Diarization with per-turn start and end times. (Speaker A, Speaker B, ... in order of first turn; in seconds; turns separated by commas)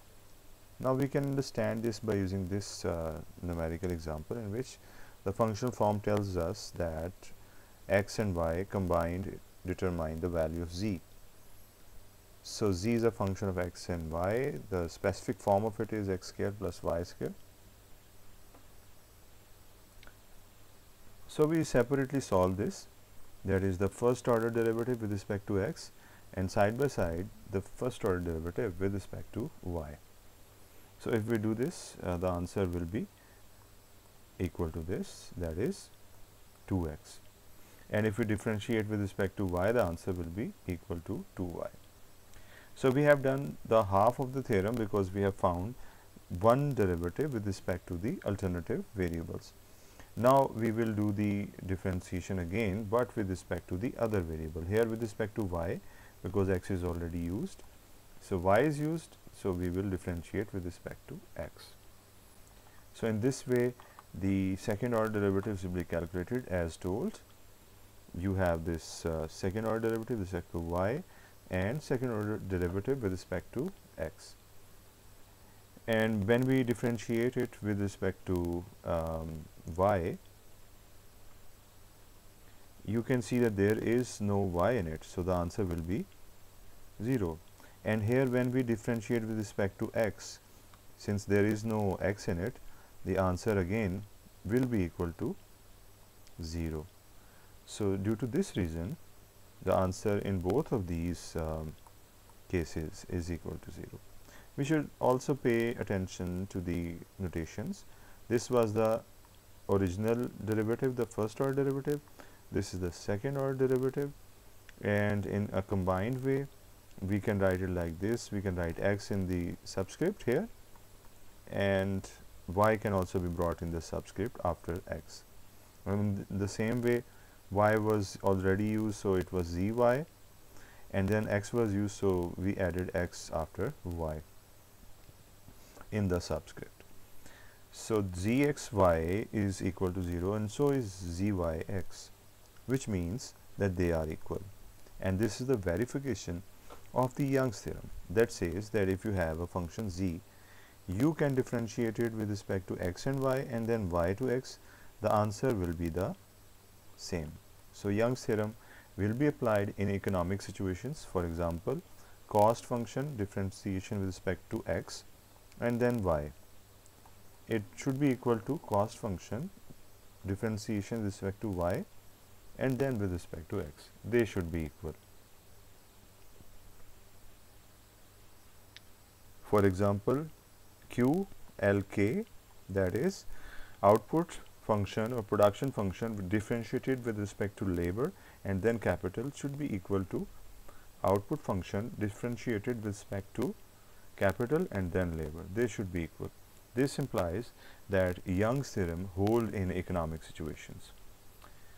Speaker A: 0.8-11.1, Speaker A: 12.4-17.4, Speaker A: 21.3-22.9, Speaker A: 23.4-30.0, Speaker A: 31.0-33.1, Speaker A: 34.4-35.9, Speaker A: 36.6-37.2, Speaker A: 37.9-41.8, Speaker A: 42.8-45.8, Speaker A: 46.3-49.6, Speaker A: 50.1-57.6, Speaker A: 58.2-61.8, Speaker A: 62.9-67.2, Speaker A: 68.1-74.4, Speaker A: 75.9-80.2, Speaker A: 82.8-86.1, Speaker A: 87.0-90.4, Speaker A: 91.0-95.4, Speaker A: 96.4-96.9, Speaker A: 97.6-99.0, Speaker A: 99.6-101.8, Speaker A: 102.5-109.1, Speaker A: 109.7-114.2, Speaker A: 114.8-116.5, Speaker A: 117.0-120.5, Speaker A: 121.5-125.3, Speaker A: 125.8-130.1, Speaker A: 130.9-134.2, Speaker A: 135.9-136.8, Speaker A: 137.7-142.1, Speaker A: 142.7-144.5, Speaker A: 145.0-150.2, Speaker A: 150.9-156.2, Speaker A: 157.0-165.1, Speaker A: 165.6-166.3, Speaker A: 167.5-169.5, Speaker A: 170.2-171.9, Speaker A: 172.6-175.0, Speaker A: 179.4-180.3, Speaker A: 180.9-183.3, Speaker A: 183.8-190.3, Speaker A: 191.0-193.6, Speaker A: 194.2-200.9